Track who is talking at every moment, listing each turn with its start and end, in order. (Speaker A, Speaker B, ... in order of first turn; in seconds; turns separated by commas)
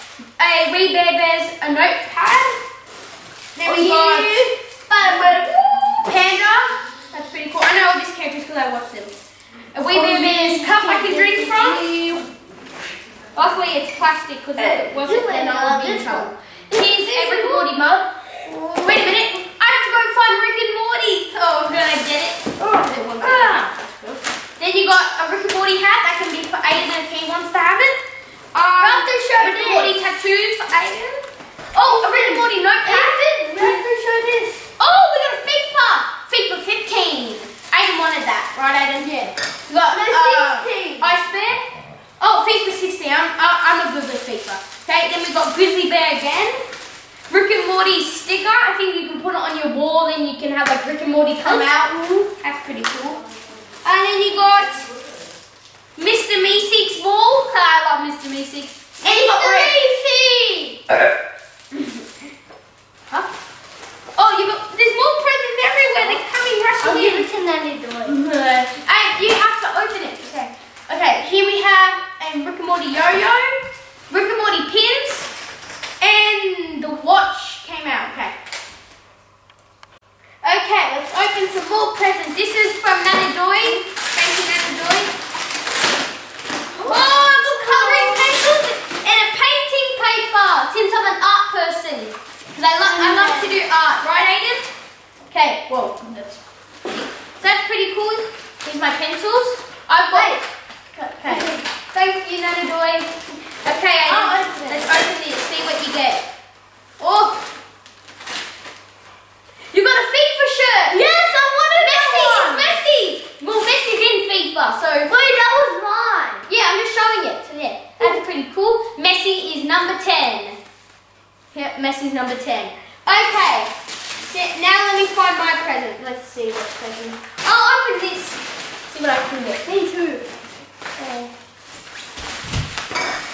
Speaker A: 0.4-2.6, Speaker A: 3.6-4.4, Speaker B: 3.6-6.1, Speaker A: 6.0-9.1, Speaker A: 9.7-11.8, Speaker B: 9.9-12.3, Speaker A: 13.3-18.1, Speaker B: 14.6-17.8, Speaker B: 18.4-19.3, Speaker A: 18.8-28.0, Speaker B: 22.6-23.7, Speaker A: 28.5-31.2, Speaker B: 28.7-30.1, Speaker A: 31.7-33.8, Speaker B: 31.8-34.6, Speaker A: 34.8-41.6, Speaker B: 39.8-41.1, Speaker A: 42.2-46.6, Speaker A: 47.3-53.2, Speaker B: 51.4-51.9, Speaker A: 53.8-54.9, Speaker A: 56.0-59.9, Speaker B: 59.0-60.8, Speaker A: 64.2-67.3, Speaker B: 66.8-68.2, Speaker A: 68.0-75.3, Speaker A: 76.0-78.3, Speaker A: 80.4-85.1, Speaker B: 86.7-88.4, Speaker A: 86.8-94.7, Speaker B: 92.8-93.6, Speaker A: 95.3-100.4, Speaker B: 100.1-100.4, Speaker A: 101.0-106.2, Speaker B: 101.3-101.6, Speaker B: 104.1-104.8, Speaker A: 107.0-107.4, Speaker A: 109.7-111.0, Speaker B: 110.9-112.8, Speaker A: 111.7-115.1, Speaker B: 115.1-116.5, Speaker A: 116.5-120.6, Speaker A: 121.5-123.7, Speaker A: 124.2-129.7, Speaker B: 129.7-130.3, Speaker A: 131.0-131.3